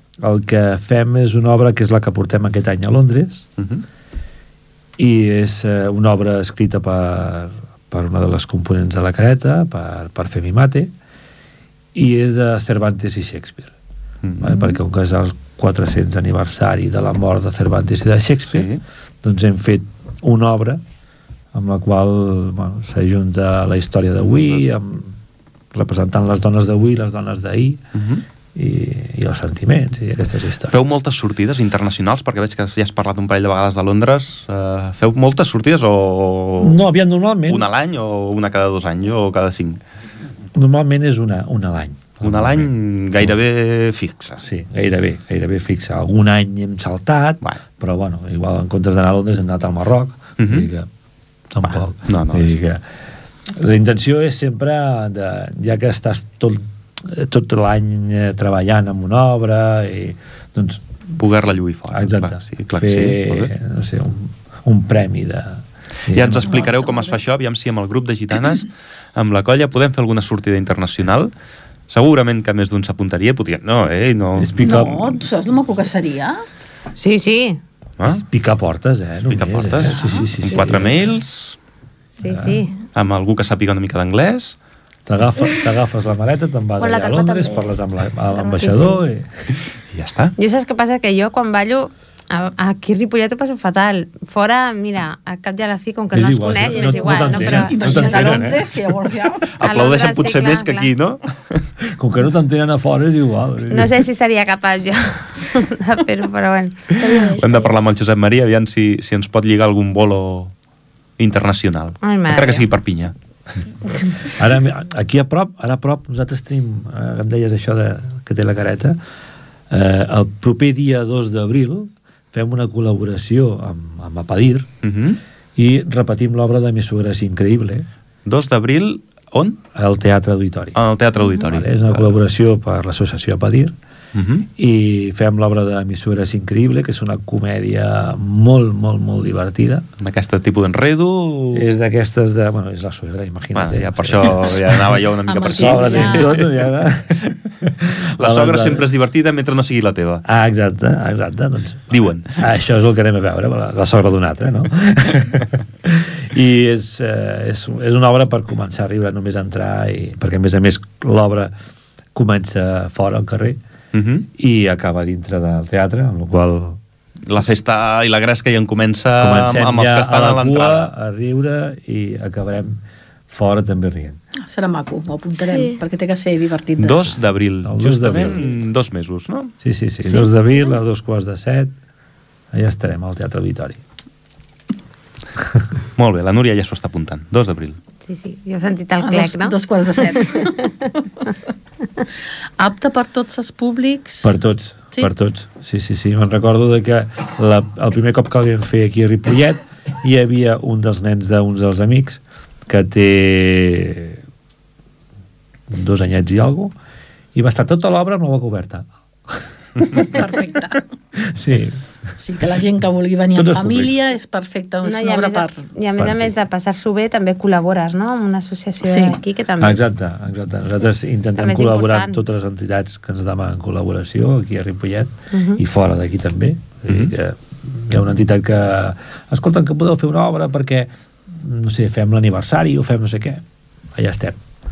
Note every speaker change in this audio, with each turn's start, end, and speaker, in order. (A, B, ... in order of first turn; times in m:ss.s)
0:00.2-0:03.5 A
0:03.6-0:03.8 B
0:05.0-0:10.9 A
0:11.9-0:13.7 A
0:14.2-0:14.5 B
0:14.4-0:18.7 A
0:18.5-0:18.8 B
0:19.2-0:20.8 A
0:21.5-0:25.1 A
0:25.7-0:27.8 A
0:27.9-0:28.2 B
0:28.5-0:30.8 A
0:30.7-0:36.8 B
0:36.6-0:37.7 A
0:37.5-0:39.8 B
0:40.5-0:43.3 A
0:42.2-0:44.4 B
0:44.4-0:50.9 A
0:50.4-0:50.7 B
0:51.5-0:52.8 A
0:51.6-0:52.6 B
0:53.5-1:00.8 A
1:01.2-1:03.5 B
1:01.9-1:06.6 A
1:06.1-1:11.3 B
1:06.4-1:07.2 C
1:11.9-1:15.0 B
1:14.4-1:15.2 A
1:14.6-1:16.4 C
1:17.0-1:17.6 D
1:18.0-1:21.2 A
1:19.2-1:21.6 B
1:19.9-1:20.2 C
1:22.1-1:22.7 D
1:22.2-1:22.6 A
1:22.9-1:24.6 B
1:25.0-1:29.4 A
1:26.8-1:27.7 E
1:28.3-1:29.0 E
1:29.9-1:30.3 B
1:30.4-1:38.2 D
1:36.1-1:38.7 A
1:36.9-1:39.5 C
1:38.1-1:38.5 B
1:39.5-1:41.6 B
1:39.6-1:40.9 D
1:41.9-1:44.0 A
1:43.7-1:47.0 D
1:46.9-1:47.7 E
1:47.2-1:50.5 B
1:51.2-1:53.1 B
1:52.0-1:52.7 D
1:54.2-1:59.0 A
1:59.7-2:04.7 A
2:04.8-2:05.2 B
2:05.6-2:07.9 A
2:08.2-2:09.6 B
2:09.7-2:10.8 A
2:10.7-2:12.1 B
2:11.4-2:13.7 A
2:14.1-2:14.5 B
2:14.6-2:19.8 A
2:20.0-2:21.7 B
2:21.5-2:24.6 A
2:23.5-2:26.7 B
2:25.3-2:26.3 C
2:25.4-2:28.9 A
2:28.2-2:30.2 B
2:30.2-2:41.5 A
2:31.9-2:32.5 B
2:42.1-2:43.6 A
2:43.9-2:44.3 B
2:44.3-2:46.8 A
2:47.2-2:50.9 B
2:49.2-2:54.2 A
2:54.4-2:57.2 C
2:55.4-2:55.8 E
2:56.8-2:59.5 B
2:57.6-2:58.5 A
2:59.6-3:01.7 A
3:02.5-3:03.8 A
3:06.0-3:07.8 B
3:08.0-3:10.5 D
3:09.0-3:10.7 C
3:12.6-3:14.3 C
3:14.2-3:24.2 A
3:25.7-3:26.7 A
3:27.3-3:30.4 A
3:30.0-3:30.8 C
3:31.1-3:31.8 A
3:32.2-3:35.7 C
3:33.3-3:33.9 A
3:34.8-3:40.0 D
3:36.0-3:36.3 A
3:38.8-3:39.2 C
3:39.6-3:53.4 A
3:41.4-3:42.2 D
3:45.3-3:45.6 D
3:46.9-3:47.1 B
3:53.9-3:54.4 A